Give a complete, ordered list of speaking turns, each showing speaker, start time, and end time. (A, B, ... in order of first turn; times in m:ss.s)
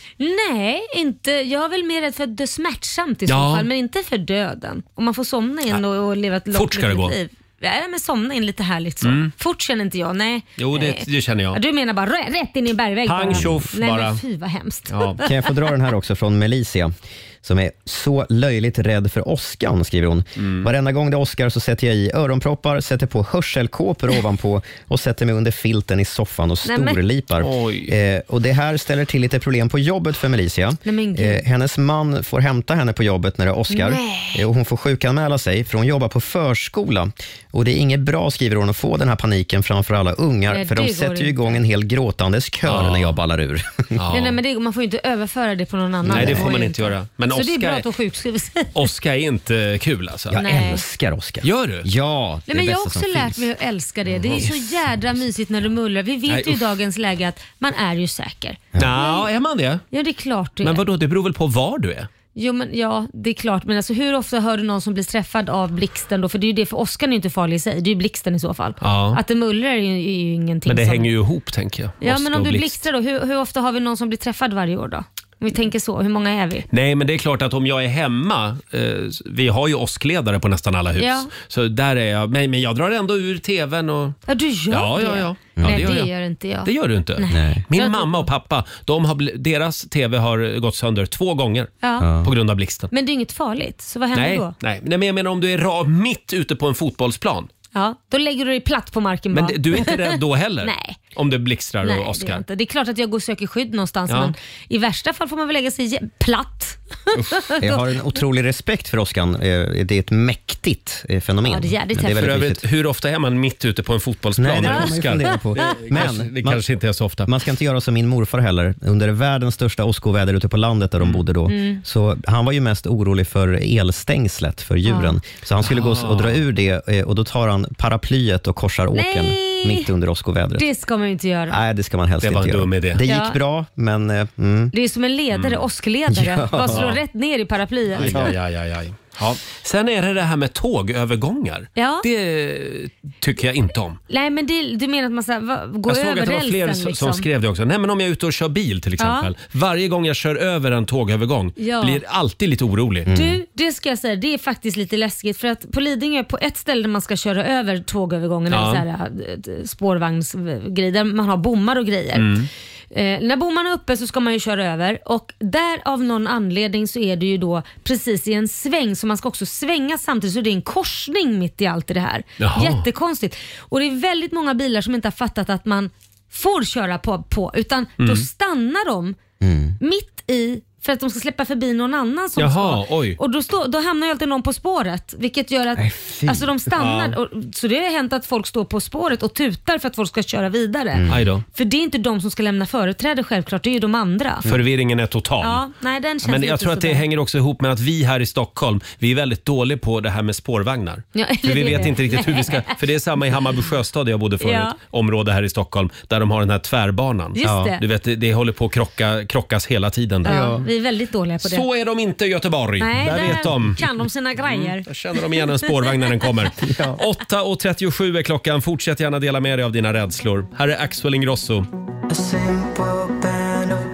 0:00.2-0:15.3 A
0:03.3-0:03.7 B
0:06.5-0:07.2 B
0:09.0-0:09.3 B
0:10.6-0:11.6 B
0:13.0-0:14.2 B
0:14.9-0:15.2 B
0:15.2-0:44.0 C
0:20.4-0:20.7 B
0:26.6-0:27.0 A
0:27.4-0:27.9 B
0:30.8-0:31.4 A
0:33.7-0:34.4 A
0:40.5-0:41.4 A
0:42.7-0:43.2 B
0:44.0-0:44.4 B
0:44.1-0:48.8 A
0:46.0-0:46.6 C
0:46.1-0:47.8 B
0:48.7-0:50.4 B
0:50.3-0:53.4 C
0:50.4-0:50.8 A
0:51.4-0:51.9 B
0:52.5-0:59.2 A
0:54.2-0:54.6 B
0:56.3-0:56.6 B
0:58.8-0:59.8 B
0:59.9-1:00.8 A
1:00.6-1:02.1 B
1:02.4-1:11.1 A
1:08.8-1:09.2 B
1:10.6-1:12.8 B
1:12.0-1:16.6 A
1:16.7-1:24.2 B
1:21.0-1:21.3 A
1:24.3-1:28.3 A
1:24.7-1:26.1 B
1:25.6-1:26.0 C
1:26.6-1:32.9 B
1:27.3-1:27.6 C
1:31.8-1:32.1 A
1:32.0-1:32.3 C
1:32.9-1:34.5 A
1:34.1-1:37.5 B
1:37.7-1:41.0 A
1:39.3-1:42.4 B
1:41.8-1:47.8 A
1:44.1-1:44.3 B
1:47.1-1:47.4 B
1:47.6-1:52.6 C
1:51.4-1:52.3 A
1:52.1-1:57.3 B
1:54.4-1:56.6 C
1:54.7-1:55.7 A
1:57.2-2:10.7 C
2:01.5-2:01.8 A
2:04.8-2:05.2 A
2:05.6-2:06.4 B
2:08.9-2:09.9 A
2:10.6-2:11.6 A
2:11.5-2:14.7 C
2:12.2-2:13.0 B
2:13.0-2:13.4 A
2:14.7-2:18.3 A
2:15.3-2:15.6 B
2:16.1-2:16.9 C
2:16.7-2:17.0 B
2:18.0-2:24.0 B
2:18.0-2:18.3 C
2:21.8-2:22.0 A
2:24.1-2:27.2 A
2:25.9-2:33.1 B
2:29.0-2:29.3 A
2:31.6-2:32.0 A
2:33.0-2:33.4 C
2:33.1-2:42.3 A
2:38.5-2:38.8 B
2:42.1-2:42.5 B
2:42.9-2:59.2 A
2:52.4-2:52.8 B
2:58.0-2:58.3 B
2:59.4-2:59.8 C
2:59.8-3:11.0 A
3:02.4-3:03.2 B
3:05.8-3:06.5 C
3:06.7-3:07.2 B
3:10.9-3:11.3 C
3:11.1-3:11.4 B
3:11.5-3:14.4 A
3:14.4-3:15.6 B
3:15.4-3:17.0 A
3:16.2-3:30.4 B
3:21.1-3:22.7 A
3:24.4-3:24.8 A
3:27.3-3:27.8 A
3:27.4-3:27.7 C
3:30.2-3:30.6 C
3:30.2-3:31.6 A
3:31.4-3:33.8 B
3:32.8-3:34.8 A
3:34.4-3:41.7 B
3:35.4-3:36.2 A
3:36.6-3:37.0 C